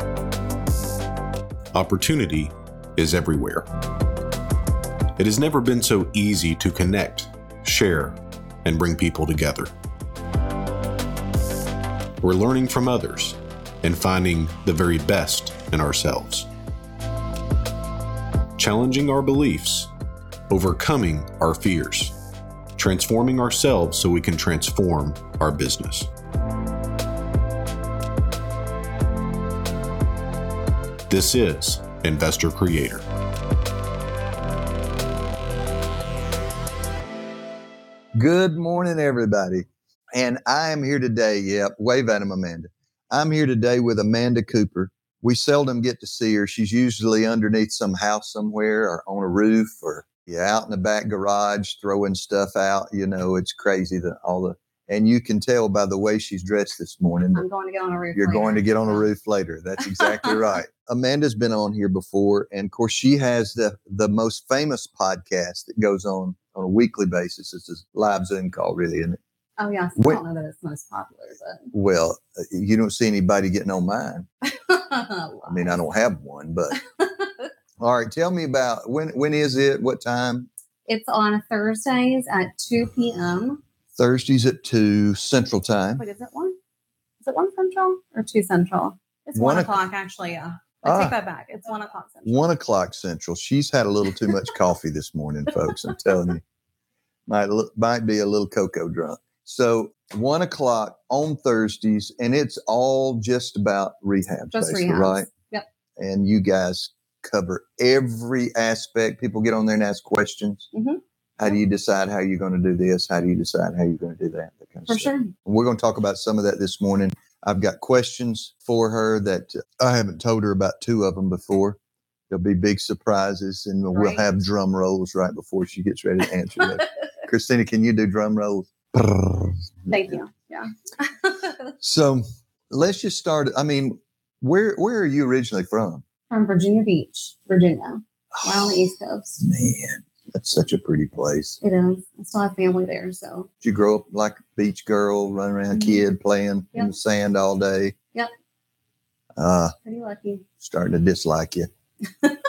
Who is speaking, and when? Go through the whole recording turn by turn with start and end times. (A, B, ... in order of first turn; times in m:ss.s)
0:01.7-0:03.6 A
0:05.2-0:09.7 A
0:12.2-0:16.5 A
0:18.6-0:19.9 A
0:20.5-0:22.2 A
0:22.8-0:26.1 A
0:31.1-0:33.0 A
0:38.1-0:57.4 B
0:57.3-0:59.1 C
0:58.1-1:09.2 B
1:00.0-1:00.3 C
1:09.6-1:11.7 C
1:11.7-1:14.3 B
1:14.4-1:15.9 C
1:15.5-1:16.8 B
1:17.8-1:20.5 B
1:20.9-1:23.6 C
1:24.0-1:26.0 B
1:26.0-1:26.6 C
1:27.2-1:32.4 C
1:29.3-1:29.8 B
1:30.8-1:31.1 B
1:32.2-1:36.4 B
1:37.3-1:45.3 B
1:44.5-1:45.6 C
1:46.0-1:50.7 B
1:50.7-1:51.0 C
1:51.4-2:01.8 B
1:54.9-1:55.3 C
2:02.3-2:10.1 B
2:03.9-2:04.2 C
2:09.9-2:11.5 C
2:11.8-2:16.0 B
2:16.3-2:19.4 C
2:18.4-2:18.8 B
2:19.4-2:21.6 B
2:21.6-2:23.5 C
2:23.6-2:27.9 B
2:25.7-2:26.0 C
2:29.4-2:29.7 B
2:29.8-2:30.4 C
2:30.6-2:31.7 B